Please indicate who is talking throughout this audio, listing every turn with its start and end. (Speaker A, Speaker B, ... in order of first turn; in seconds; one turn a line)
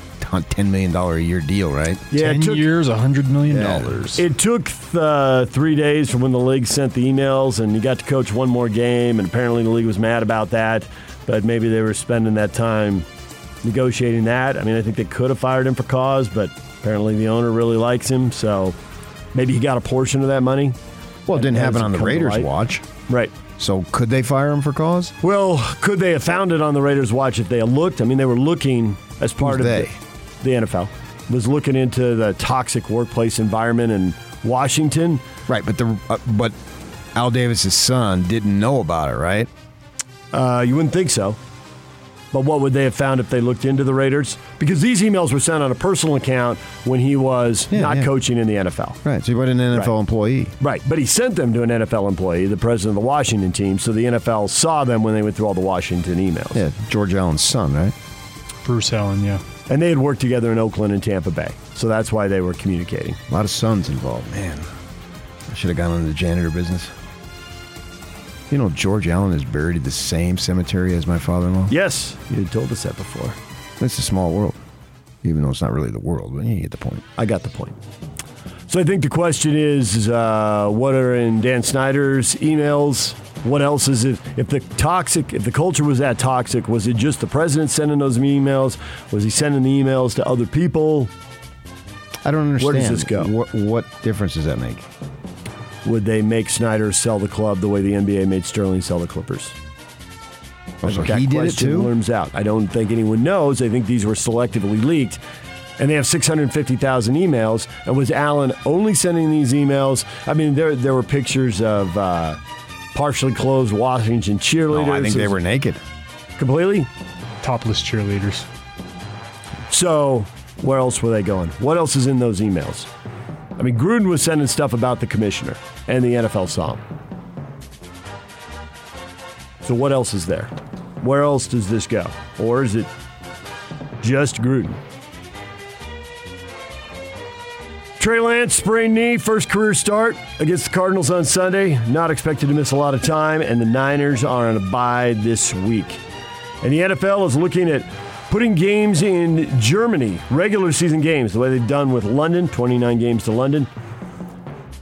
Speaker A: 0.2-2.0
Speaker B: 2.1-2.7
Speaker C: 2.1-4.2
Speaker A: 3.5-4.0
Speaker B: 4.2-13.1
Speaker B: 13.6-18.8
Speaker B: 19.3-20.8
Speaker A: 21.3-22.8
Speaker B: 21.3-22.5
Speaker B: 23.1-23.3
Speaker A: 23.6-25.1
Speaker B: 25.2-35.2
Speaker A: 29.4-29.9
Speaker A: 35.5-36.5
Speaker A: 37.1-39.5
Speaker B: 40.3-41.4
Speaker B: 42.3-49.0
Speaker A: 47.7-48.1
Speaker A: 49.0-50.5
Speaker B: 50.6-56.6
Speaker A: 56.5-57.9
Speaker C: 58.6-59.4
Speaker B: 59.7-63.2
Speaker A: 63.3-64.7
Speaker A: 65.5-66.9
Speaker A: 68.5-71.7
Speaker B: 71.7-73.3
Speaker A: 73.8-74.6
Speaker A: 75.2-77.0
Speaker B: 77.2-77.8
Speaker B: 78.7-91.1
Speaker A: 92.2-94.8
Speaker B: 92.6-93.3
Speaker B: 95.8-99.5
Speaker A: 100.8-101.9
Speaker B: 100.8-105.2
Speaker B: 105.8-112.4
Speaker B: 112.9-115.4
Speaker A: 114.7-115.8
Speaker B: 116.4-116.9
Speaker C: 117.4-118.5
Speaker B: 119.7-122.9
Speaker B: 123.6-126.8
Speaker B: 129.6-132.9
Speaker B: 134.0-134.8
Speaker B: 138.0-146.0
Speaker B: 146.6-153.7